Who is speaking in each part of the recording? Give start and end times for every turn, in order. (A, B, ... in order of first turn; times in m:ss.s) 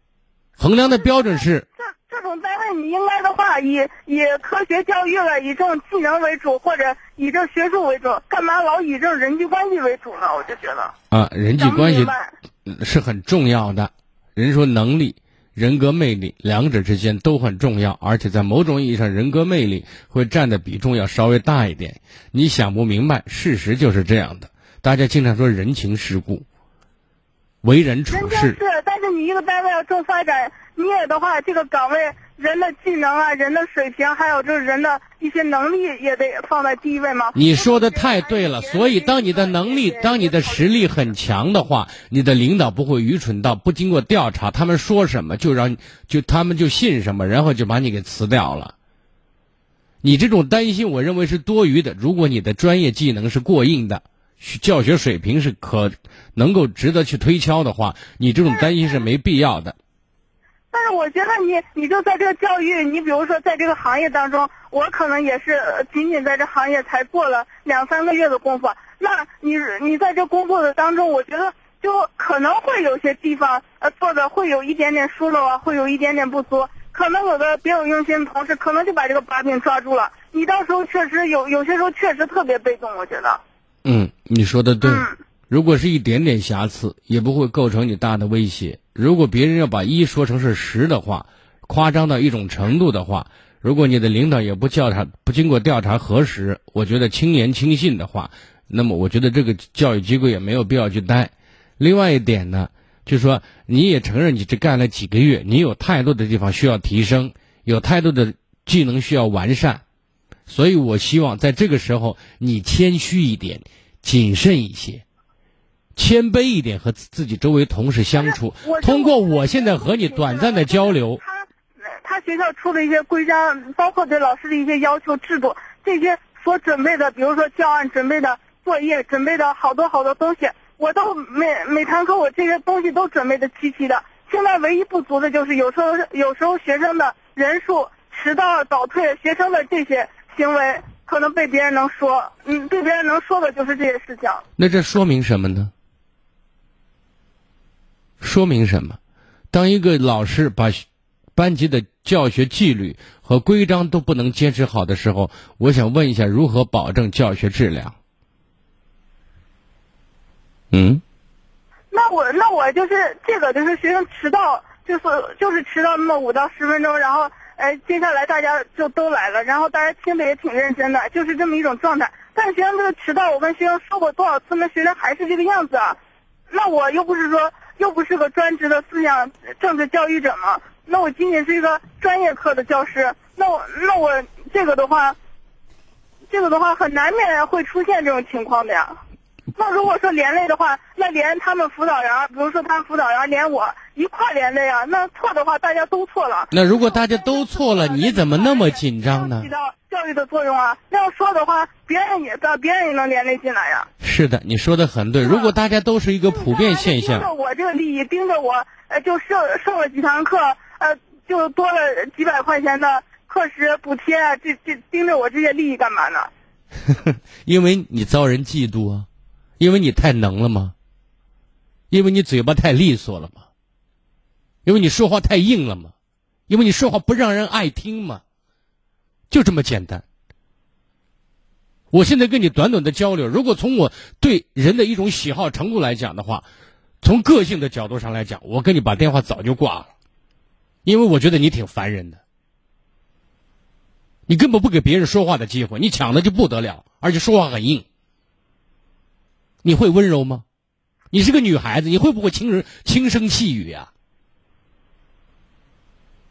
0:00.6-0:01.6 A
0:00.8-0:10.9 B
0:11.1-0:12.1 A
0:11.6-0:12.3 B
0:12.6-0:26.4 A
0:27.6-0:28.6 A
0:28.1-0:41.0 B
0:37.3-0:48.7 A
0:50.0-0:59.8 A
1:00.7-1:23.4 B
1:23.8-1:49.8 A
1:24.8-1:25.1 B
1:50.5-1:55.0 A
1:56.0-2:01.2 A
1:58.1-2:24.4 B
2:24.6-2:25.7 A
2:28.2-2:29.0 A
2:29.5-2:30.8 A
2:31.4-2:37.9 A
2:40.7-2:41.0 A
2:41.9-2:56.0 B
2:56.5-3:05.2 B
3:06.3-3:09.0 B
3:09.6-3:23.9 B
3:16.5-3:19.5 A
3:24.0-3:27.3 A
3:25.2-3:25.5 B
3:26.3-3:36.3 B
3:36.9-3:39.0 A
3:39.6-3:40.7 A
3:41.9-3:43.4 A
3:44.6-3:45.9 A
3:46.5-3:48.2 A
3:49.3-3:50.0 A
3:51.9-3:56.4 A
3:57.0-3:59.9 A
4:00.8-4:02.2 A
4:04.3-4:07.8 A
4:09.6-4:10.4 A
4:11.1-4:13.9 A